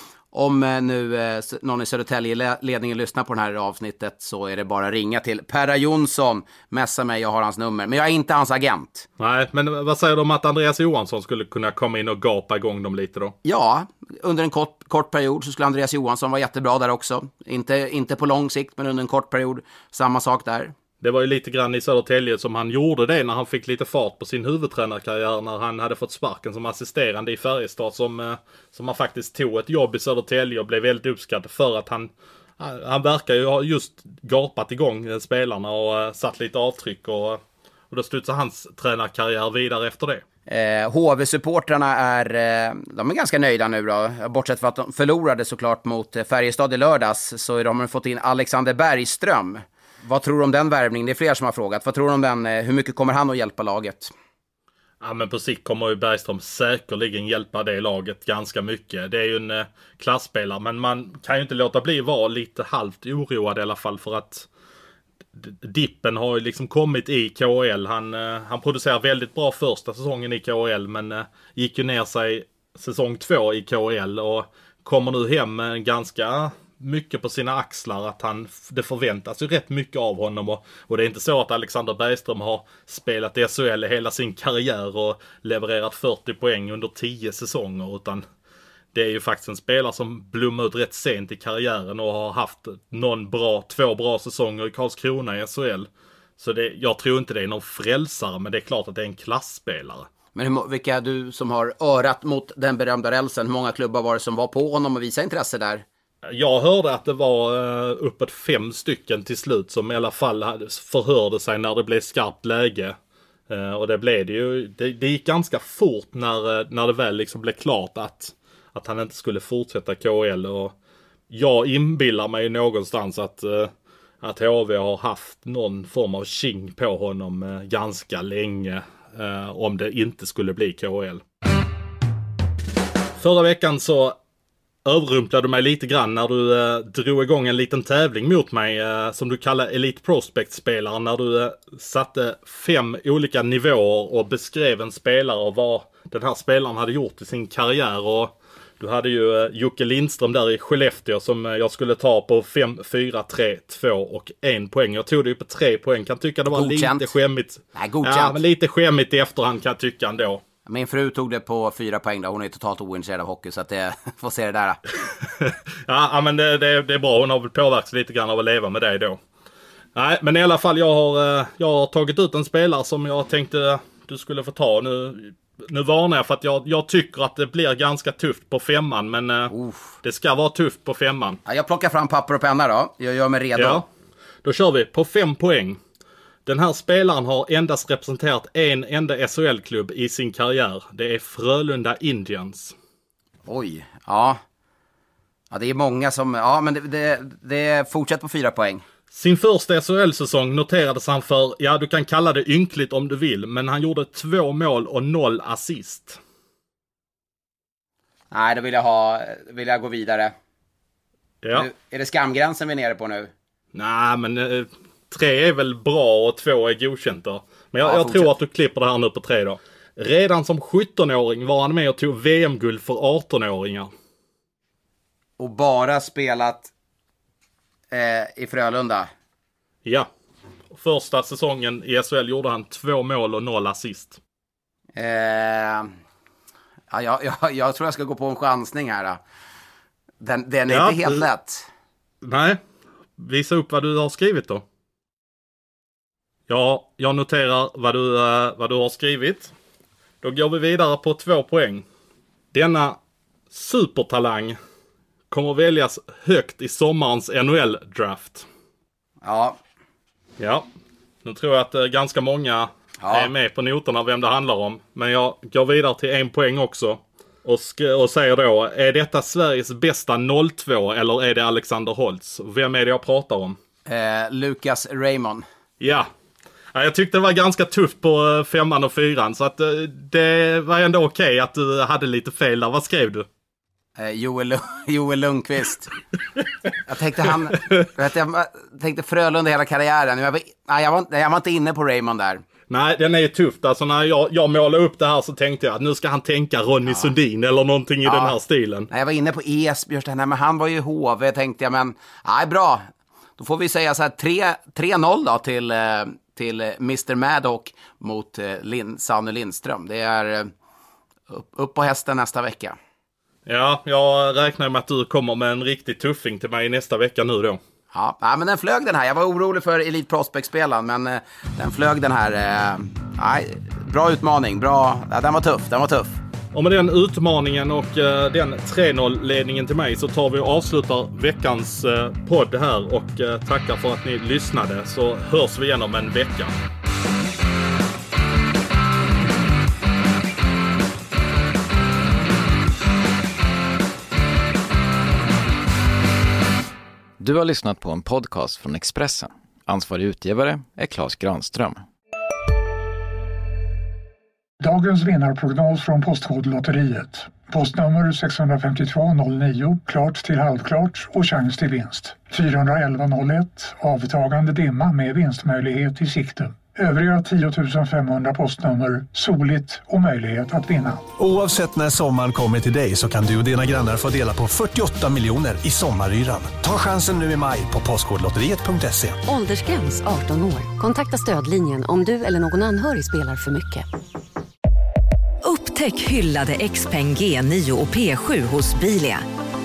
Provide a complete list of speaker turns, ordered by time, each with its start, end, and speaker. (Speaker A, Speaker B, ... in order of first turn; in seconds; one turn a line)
Speaker A: 0.3-9.1
Speaker B: 9.2-13.3
Speaker A: 13.4-20.7
Speaker B: 21.0-37.4
Speaker B: 37.9-40.2
Speaker A: 40.5-54.1
Speaker B: 55.0-64.5
Speaker B: 65.4-88.2
Speaker B: 88.9-100.1
Speaker A: 100.3-105.8
Speaker B: 106.2-113.0
Speaker B: 113.5-120.7
Speaker B: 121.3-123.7
Speaker B: 124.2-131.2
Speaker B: 133.2-134.2
Speaker B: 134.8-160.4
Speaker A: 156.5-157.1
Speaker A: 157.7-158.4
Speaker A: 160.7-164.8
Speaker B: 165.2-169.2
Speaker B: 169.9-181.4
Speaker A: 179.5-179.9
Speaker A: 181.4-183.8
Speaker B: 183.6-183.8
Speaker B: 184.4-185.8
Speaker B: 186.4-192.7
Speaker A: 193.4-194.4
Speaker A: 195.5-198.8
Speaker B: 199.1-206.2
Speaker A: 208.3-210.3
Speaker B: 211.4-211.7
Speaker A: 211.5-213.3
Speaker B: 213.7-223.9
Speaker A: 217.8-218.3
Speaker A: 225.4-226.7
Speaker A: 227.9-229.1
Speaker B: 230.7-234.2
Speaker A: 234.9-235.9
Speaker A: 236.9-239.2
Speaker A: 240.2-241.7
Speaker B: 240.7-241.2
Speaker B: 242.2-242.6
Speaker B: 243.2-244.6
Speaker B: 246.5-249.5
Speaker B: 250.2-251.8
Speaker B: 252.5-253.0
Speaker B: 253.5-254.6
Speaker B: 255.3-258.5
Speaker A: 259.2-259.6
Speaker B: 260.4-260.7
Speaker B: 261.2-273.6
Speaker A: 263.0-263.3
Speaker A: 273.9-275.4
Speaker B: 275.8-276.1
Speaker B: 276.7-283.2
Speaker A: 284.0-285.9
Speaker A: 286.8-292.4
Speaker B: 292.7-298.9
Speaker A: 296.9-297.1
Speaker A: 298.0-298.3
Speaker A: 298.9-302.9
Speaker A: 303.4-310.5
Speaker A: 311.3-312.8
Speaker B: 313.4-317.6
Speaker A: 317.9-326.2
Speaker B: 326.5-336.5
Speaker C: 347.2-351.8
Speaker D: 354.6-371.0
Speaker E: 371.2-379.2
Speaker F: 379.3-383.9
Speaker G: 385.4-389.2